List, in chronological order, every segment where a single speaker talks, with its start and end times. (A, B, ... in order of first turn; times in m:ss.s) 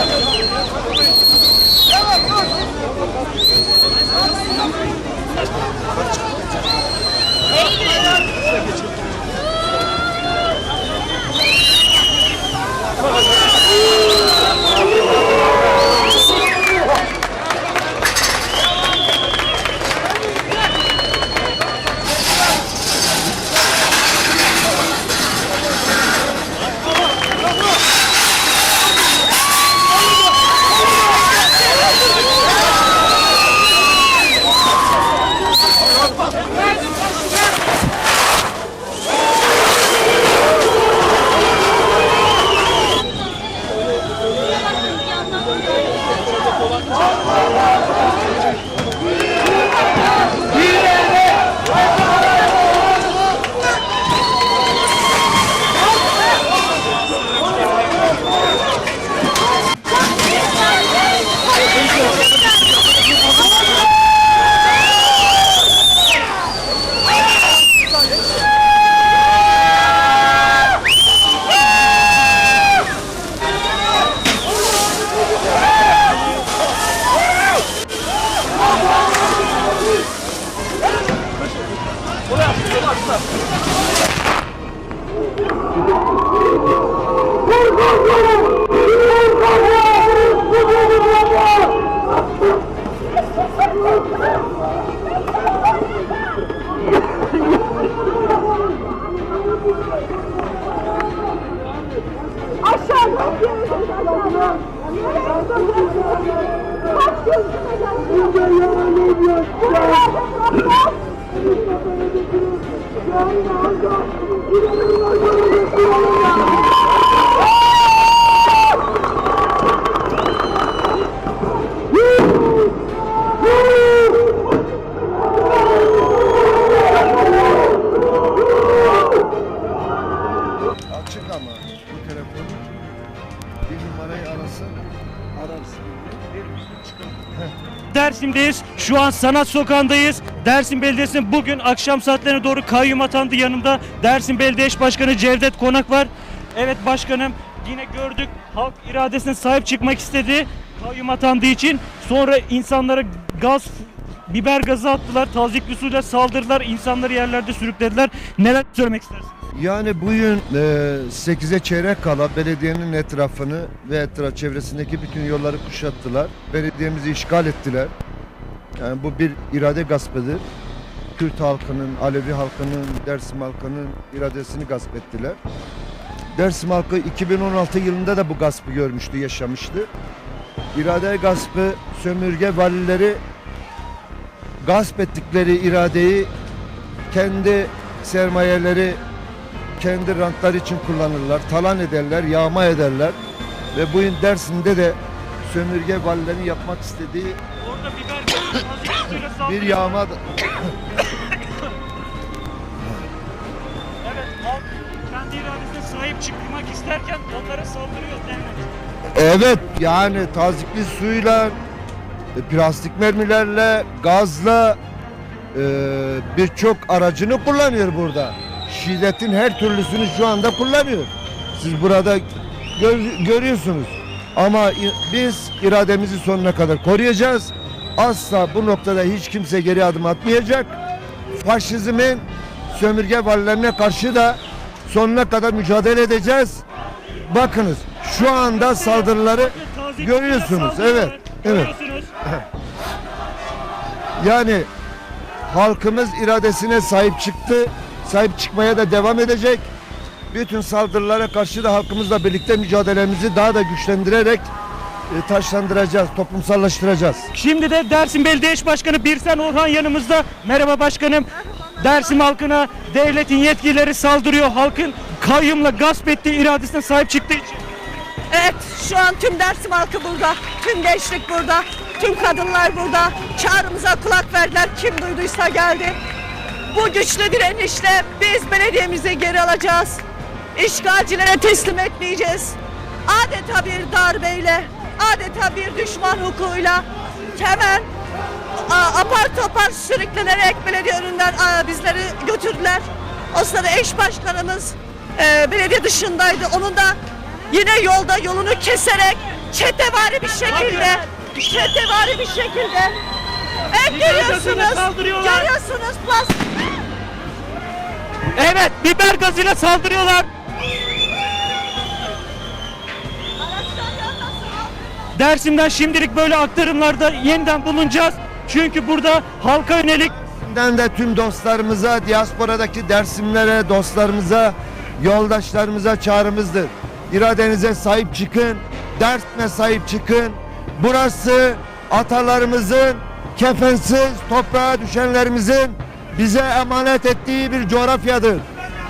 1:42.6-1:46.4 A
1:47.0-1:48.2 A
2:10.9-2:12.6 B
2:13.7-2:14.8 B
2:15.4-2:16.0 B
2:17.9-2:39.3 C
2:39.5-2:47.9 B
2:48.8-2:50.4 B
2:51.1-2:55.4 B
2:56.4-2:59.9 B
3:00.7-3:03.2 B
3:04.6-3:06.3 B
3:07.1-3:09.0 B
3:09.8-3:13.2 B
3:13.7-3:17.4 B
3:17.6-3:19.9 C
3:19.4-3:20.6 B
3:24.0-3:28.7 C
3:29.1-3:31.6 B
3:32.4-3:34.8 B
3:35.5-3:50.7 B
3:51.4-3:56.6 B
3:57.3-4:01.7 B
3:58.5-4:02.1 C
4:04.2-4:04.7 B
4:05.5-4:09.7 B
4:10.3-4:14.5 B
4:15.1-4:17.3 B
4:17.3-4:27.6 C
4:28.3-4:36.0 A
4:36.7-4:40.0 A
4:40.5-4:47.9 A
4:48.6-4:57.0 A
4:57.5-5:03.0 A
5:00.5-5:00.9 C
5:03.7-5:06.5 A
5:03.9-5:05.5 C
5:08.3-5:10.3 C
5:13.4-5:14.7 A
5:15.2-5:20.1 C
5:20.1-5:38.4 B